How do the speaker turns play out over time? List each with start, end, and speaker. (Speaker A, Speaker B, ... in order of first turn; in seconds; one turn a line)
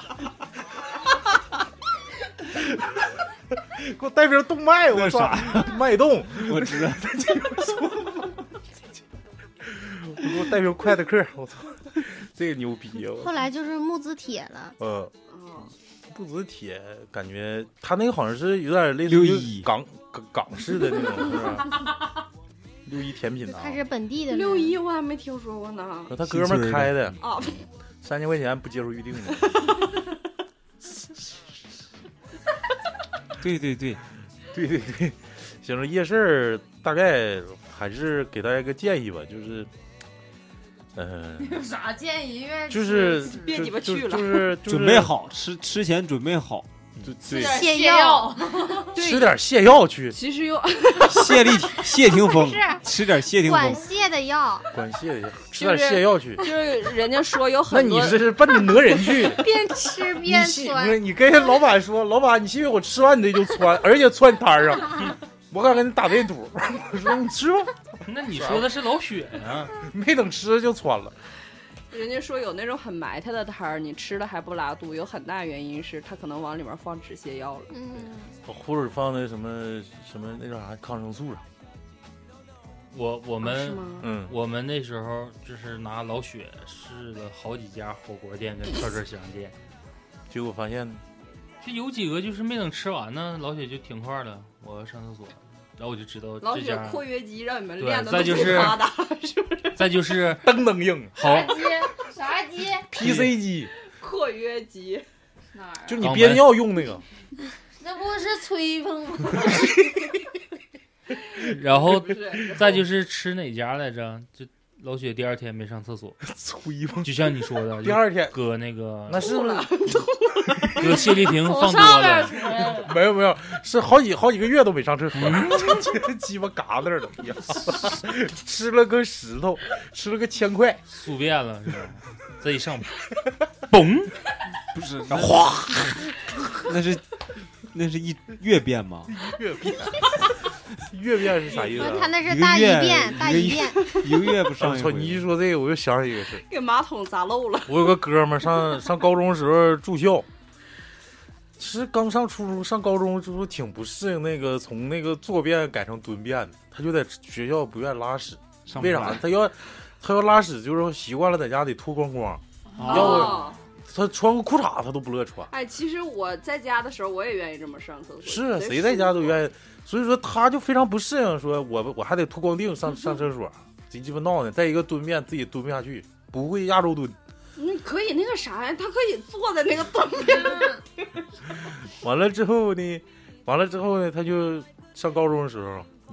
Speaker A: 2.5-8.4
Speaker B: 4.9-7.4
Speaker A: 9.6-13.3
Speaker C: 13.2-14.8
Speaker A: 14.8-15.1
Speaker D: 15.3-15.7
Speaker A: 16.1-21.8
Speaker B: 19.1-19.7
Speaker A: 22.9-23.8
Speaker C: 23.5-24.8
Speaker D: 24.3-26.1
Speaker A: 26.1-27.2
Speaker B: 26.2-27.2
Speaker D: 27.2-27.6
Speaker A: 28.0-29.8
Speaker B: 33.4-34.0
Speaker A: 34.5-39.7
Speaker A: 40.9-41.6
Speaker E: 41.4-43.5
Speaker A: 42.7-45.1
Speaker D: 43.2-44.5
Speaker B: 44.6-47.1
Speaker A: 47.0-47.7
Speaker E: 47.2-49.0
Speaker C: 47.4-48.5
Speaker D: 48.9-49.4
Speaker A: 48.9-50.2
Speaker D: 50.1-51.7
Speaker B: 51.0-53.9
Speaker C: 52.3-54.7
Speaker A: 54.7-56.5
Speaker D: 55.5-58.3
Speaker A: 57.7-59.4
Speaker C: 59.1-61.6
Speaker A: 60.2-68.7
Speaker F: 68.0-69.7
Speaker A: 69.7-71.1
Speaker D: 71.9-77.7
Speaker C: 77.7-78.3
Speaker A: 78.5-81.4
Speaker F: 82.9-89.5
Speaker D: 83.4-84.1
Speaker A: 84.0-84.3
Speaker A: 90.3-91.0
Speaker F: 91.6-97.0
Speaker D: 96.4-99.8
Speaker F: 97.8-98.8
Speaker F: 99.7-100.6
Speaker A: 100.4-101.3
Speaker E: 101.2-102.9
Speaker F: 101.2-101.5
Speaker A: 102.9-103.7
Speaker F: 103.0-103.3
Speaker D: 103.9-105.0
Speaker E: 105.5-106.0
Speaker A: 105.8-107.0
Speaker F: 106.0-106.5
Speaker E: 107.8-109.8
Speaker F: 111.5-116.2
Speaker D: 112.0-112.8
Speaker A: 116.3-117.1
Speaker F: 117.0-119.2
Speaker A: 117.8-118.3
Speaker A: 119.1-119.7
Speaker D: 119.2-120.8
Speaker A: 120.6-121.0
Speaker F: 120.7-122.5
Speaker E: 121.3-123.0
Speaker A: 122.6-130.8
Speaker F: 125.1-125.8
Speaker F: 130.9-133.0
Speaker F: 133.7-134.1
Speaker B: 134.7-137.1
Speaker A: 135.1-136.0
Speaker B: 137.6-139.1
Speaker A: 139.1-142.1
Speaker D: 141.5-141.8
Speaker C: 141.6-143.8
Speaker B: 142.2-145.3
Speaker D: 143.8-144.1
Speaker A: 144.6-146.4
Speaker D: 146.3-147.9
Speaker A: 147.7-150.3
Speaker A: 151.6-165.5
Speaker B: 158.7-159.2
Speaker B: 162.8-163.3
Speaker D: 162.8-163.6
Speaker D: 165.5-169.4
Speaker A: 168.2-177.1
Speaker D: 177.6-181.0
Speaker A: 182.0-185.9